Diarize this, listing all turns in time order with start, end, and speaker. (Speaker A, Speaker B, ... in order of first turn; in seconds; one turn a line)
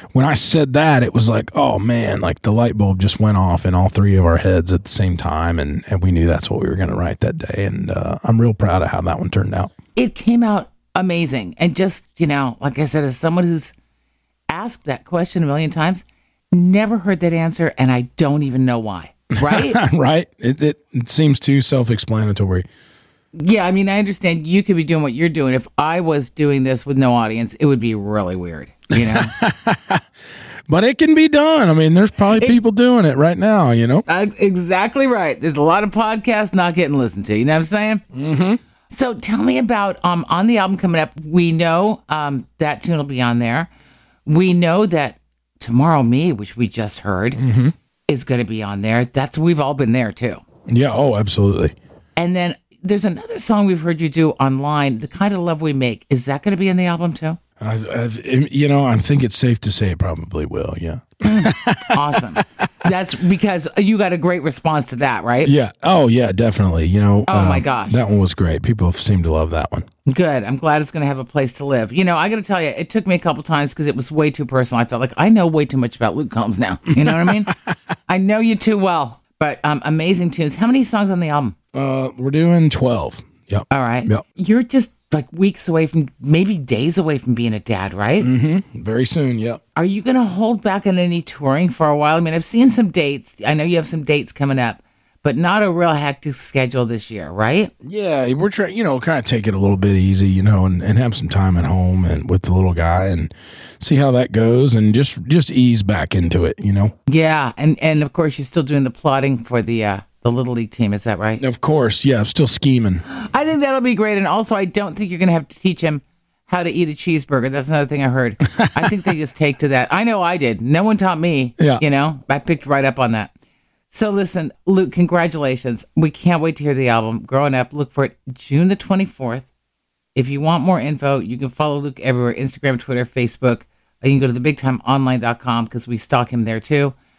Speaker A: 0.1-9.7
Speaker B: 10.0-13.7
Speaker B: 14.5-19.8
Speaker A: 19.4-22.7
Speaker B: 23.4-29.3
Speaker A: 28.9-30.0
Speaker A: 30.7-34.0
Speaker B: 34.1-38.0
Speaker A: 38.1-38.6
Speaker B: 38.9-43.7
Speaker B: 44.3-47.4
Speaker A: 47.4-47.7
Speaker B: 48.1-50.4
Speaker A: 50.7-51.8
Speaker B: 52.2-57.4
Speaker A: 57.6-62.4
Speaker B: 61.2-65.5
Speaker A: 65.4-69.9
Speaker B: 67.3-68.0
Speaker B: 70.1-77.5
Speaker A: 77.0-77.5
Speaker B: 78.1-81.5
Speaker A: 81.7-84.2
Speaker B: 83.7-88.3
Speaker A: 88.2-89.6
Speaker B: 89.8-97.7
Speaker A: 97.8-106.9
Speaker B: 107.1-111.4
Speaker A: 111.4-113.0
Speaker B: 113.1-123.3
Speaker B: 123.9-129.5
Speaker B: 130.2-136.9